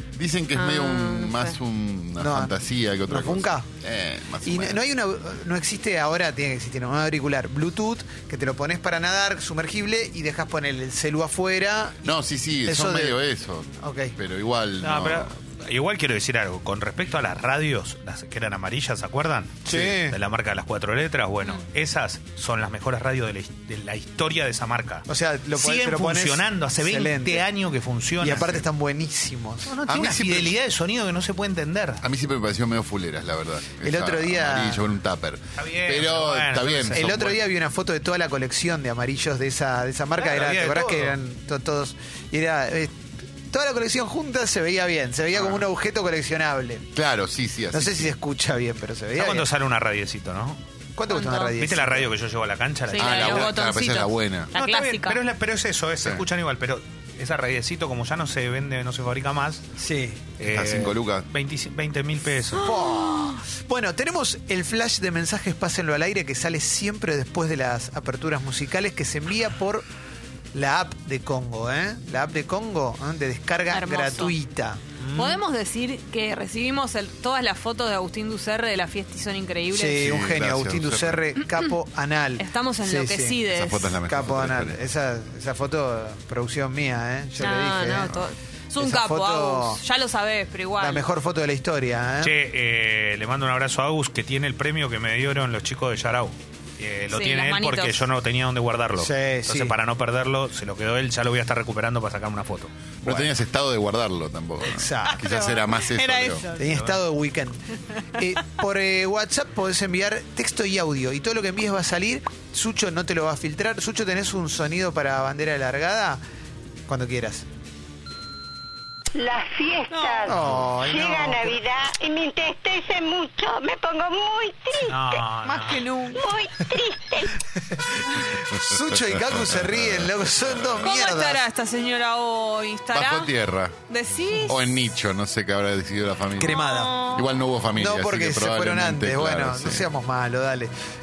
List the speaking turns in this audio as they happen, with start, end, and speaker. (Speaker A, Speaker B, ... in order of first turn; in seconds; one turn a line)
Speaker A: 0.2-4.8
Speaker B: 0.6-1.6
Speaker C: 2.2-3.7
Speaker C: 4.4-13.2
Speaker A: 12.1-15.3
Speaker C: 13.8-14.2
Speaker D: 14.8-28.6
Speaker C: 19.7-20.2
Speaker C: 25.1-27.5
Speaker C: 28.2-29.7
Speaker D: 29.6-32.0
Speaker A: 29.9-30.6
Speaker A: 32.0-37.4
Speaker C: 33.8-34.8
Speaker D: 35.6-37.0
Speaker C: 37.0-46.9
Speaker D: 40.2-41.1
Speaker A: 45.4-45.6
Speaker A: 46.9-48.1
Speaker C: 47.7-49.5
Speaker D: 49.2-50.6
Speaker C: 51.0-52.1
Speaker B: 51.1-51.6
Speaker D: 51.6-53.5
Speaker B: 52.9-55.2
Speaker A: 53.0-54.5
Speaker D: 54.5-59.6
Speaker C: 59.8-60.2
Speaker D: 60.4-62.7
Speaker A: 60.4-61.3
Speaker C: 62.5-69.8
Speaker B: 62.6-63.4
Speaker C: 70.5-75.4
Speaker B: 73.7-74.3
Speaker B: 75.2-80.0
Speaker C: 79.7-83.4
Speaker A: 80.0-81.3
Speaker B: 82.4-83.9
Speaker A: 83.5-84.8
Speaker C: 84.1-88.2
Speaker B: 87.4-91.1
Speaker C: 88.8-89.8
Speaker C: 90.8-92.4
Speaker D: 92.2-102.7
Speaker B: 97.1-98.0
Speaker C: 99.0-99.8
Speaker A: 103.0-106.4
Speaker C: 104.7-105.3
Speaker B: 105.0-106.7
Speaker D: 106.6-107.0
Speaker C: 106.6-116.2
Speaker C: 116.9-117.5
Speaker E: 119.1-125.2
Speaker B: 119.9-120.3
Speaker C: 120.3-121.6
Speaker A: 120.3-120.7
Speaker D: 124.8-125.9
Speaker B: 125.5-126.2
Speaker E: 126.2-127.4
Speaker C: 127.6-131.4
Speaker A: 128.5-130.9
Speaker B: 130.8-133.3
Speaker A: 132.9-133.8
Speaker B: 133.9-134.6
Speaker A: 134.3-139.9
Speaker C: 136.4-137.1
Speaker B: 136.5-137.3
Speaker C: 137.8-140.7